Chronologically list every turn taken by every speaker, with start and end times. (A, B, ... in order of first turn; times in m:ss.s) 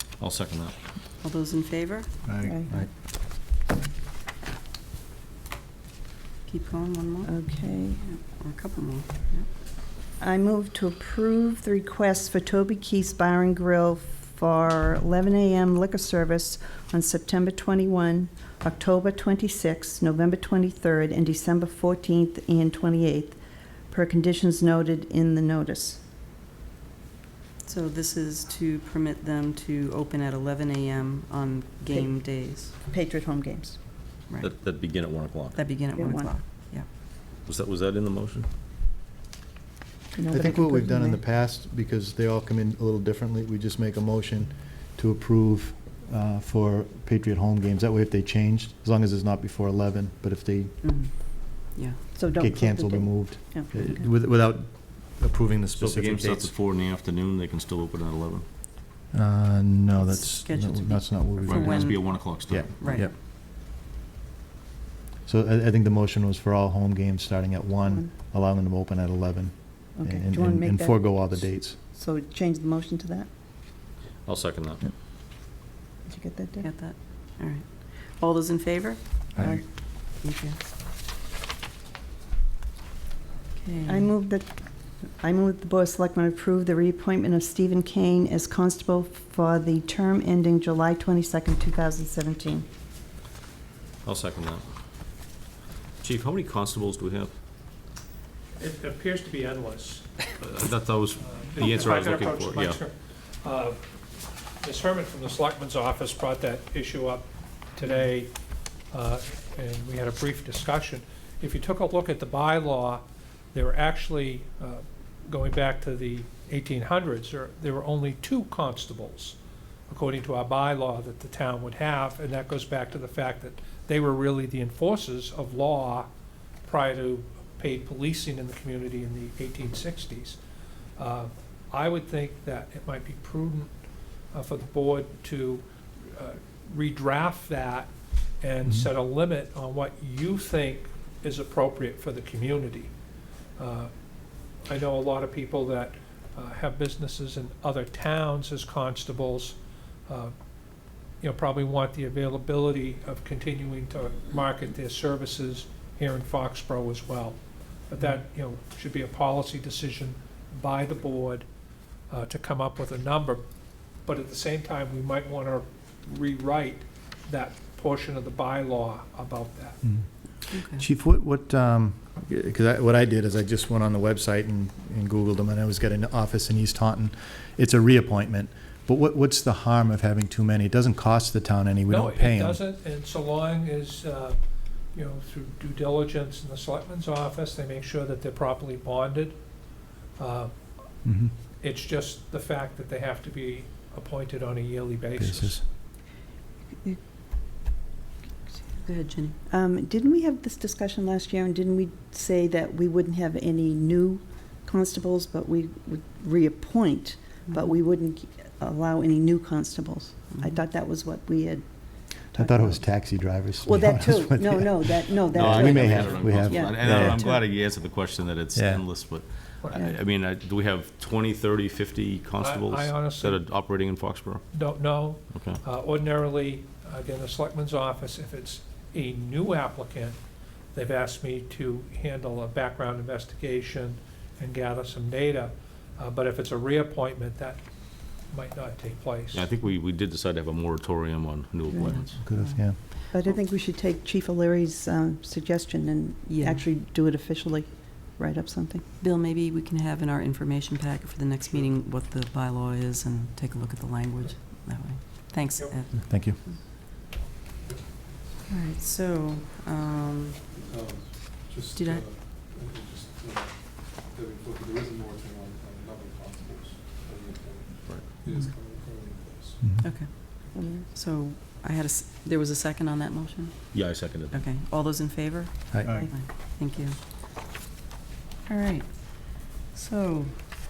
0:00.2-0:00.8 A
0:01.2-0:02.1 B
0:02.2-0:02.9 C
0:02.4-0:02.9 D
0:06.5-0:09.5 B
0:07.3-0:08.0 D
0:10.2-0:23.4 D
0:23.9-0:26.0 D
0:27.6-0:32.8 B
0:32.9-0:33.8 D
0:34.4-0:35.6 A
0:35.6-0:36.8 B
0:36.0-0:36.3 D
0:37.4-0:38.5 A
0:40.1-0:41.2 D
0:40.3-0:50.8 C
0:50.8-0:51.1 B
0:51.7-0:52.0 B
0:52.2-0:54.1 D
0:52.4-0:56.5 C
0:55.7-0:58.4 A
0:59.1-1:03.1 C
1:00.0-1:03.1 B
1:01.4-1:03.0 A
1:05.2-1:11.8 C
1:07.8-1:08.1 D
1:10.0-1:13.3 D
1:14.2-1:14.9 A
1:16.0-1:16.7 D
1:16.6-1:19.0 B
1:19.3-1:19.6 C
1:19.4-1:19.6 D
1:20.2-1:20.6 B
1:23.6-1:24.1 B
1:23.9-1:24.5 D
1:25.2-1:32.7 D
1:34.0-1:34.6 A
1:36.0-1:37.3 A
1:38.6-1:40.1 E
1:40.4-1:42.8 A
1:41.2-1:43.8 E
1:44.6-1:48.3 E
1:48.9-1:59.4 E
1:59.9-2:06.1 E
2:06.6-2:10.4 E
2:11.0-2:13.7 E
2:14.3-2:17.9 E
2:18.4-2:22.9 E
2:23.6-2:23.9 E
2:24.6-2:30.3 E
2:31.2-2:41.5 E
2:42.1-2:43.4 E
2:44.0-2:49.8 E
2:49.8-3:02.6 C
2:50.5-2:50.8 B
3:01.9-3:04.4 E
3:04.9-3:09.4 E
3:10.2-3:10.6 E
3:11.0-3:11.3 C
3:11.6-3:15.6 E
3:15.2-3:15.6 C
3:18.7-3:19.4 B
3:19.5-3:31.6 D
3:32.3-3:32.8 D
3:32.3-3:37.3 C
3:33.6-3:37.4 D
3:35.3-3:44.4 A
3:38.5-3:38.8 C
3:42.4-3:43.4 E
3:44.5-3:50.2 E
3:45.3-3:45.6 A
3:50.7-3:57.6 E
3:58.3-3:59.5 E
3:59.3-4:02.1 A
4:01.7-4:02.7 B
4:02.2-4:02.8 C
4:03.1-4:08.8 D
4:06.3-4:06.7 B
4:09.0-4:16.5 B
4:16.0-4:16.4 C
4:18.5-4:20.5 B
4:20.5-4:29.6 F
4:21.7-4:22.0 B
4:27.9-4:28.2 A
4:29.6-4:29.9 C
4:29.8-4:37.0 B
4:30.5-4:30.9 D
4:33.7-4:34.4 A
4:35.7-4:36.1 C
4:38.5-4:40.4 B